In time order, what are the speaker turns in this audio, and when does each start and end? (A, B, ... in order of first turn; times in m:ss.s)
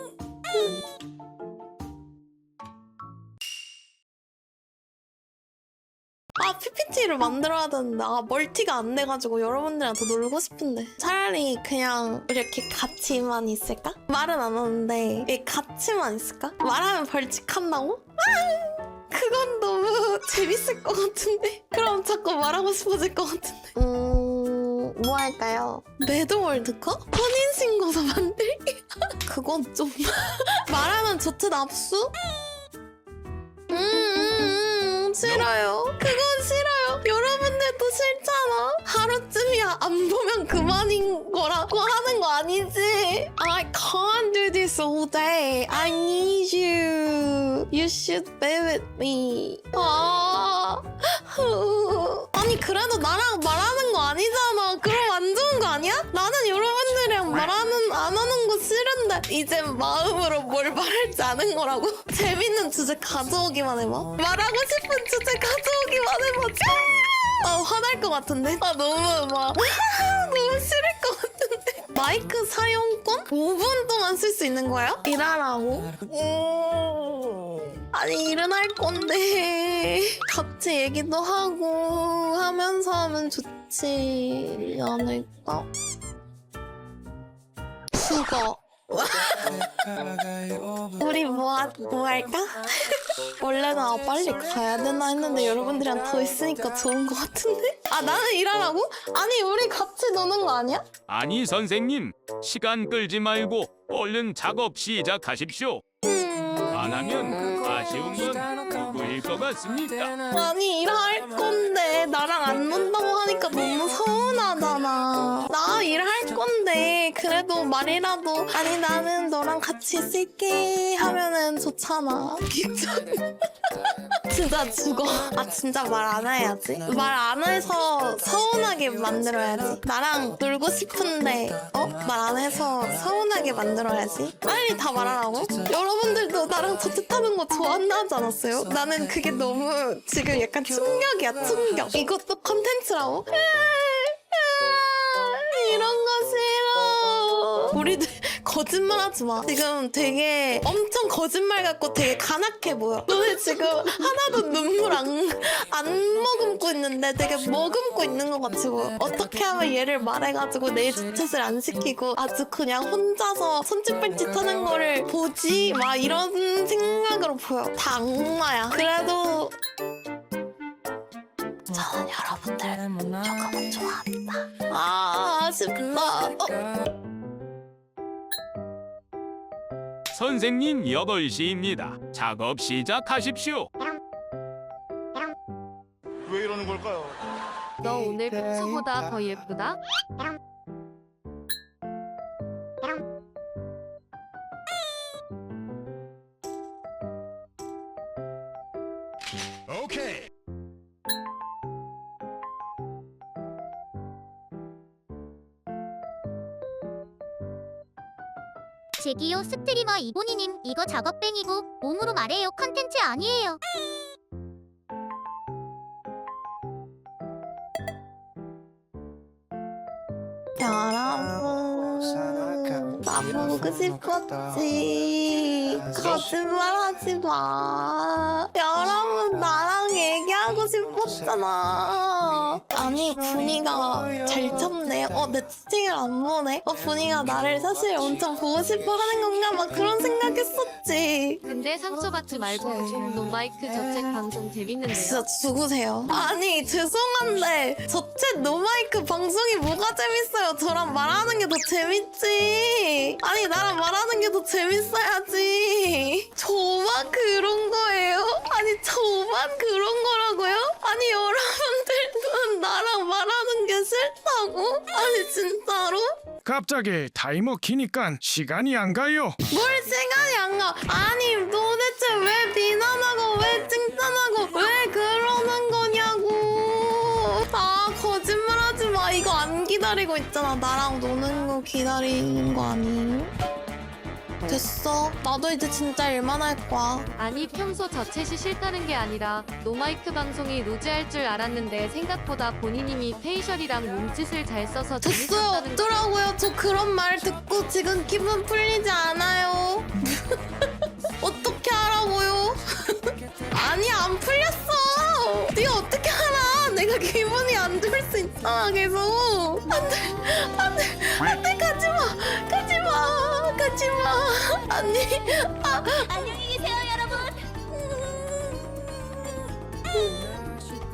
0:06.4-0:32.1 A
0:33.7-1:25.7 A
0:35.2-0:35.5 B
1:27.9-1:29.9 A
1:31.0-1:40.8 A
1:41.1-1:45.8 B
1:46.0-1:47.6 A
1:46.7-1:50.2 B
1:50.3-2:03.3 A
2:04.3-2:49.5 A
2:51.7-2:56.6 A
3:00.1-3:03.7 B
3:07.8-3:09.8 C
3:29.0-3:33.6 D
3:40.6-4:01.4 A
3:45.9-3:46.3 B
4:01.4-4:05.2 C
4:04.9-4:26.2 A
4:26.4-4:29.4 E
4:29.5-4:43.3 A
4:44.4-4:47.1 A
4:47.2-4:56.0 C
4:55.0-5:16.7 A
5:17.7-5:18.8 A
5:19.9-5:20.2 A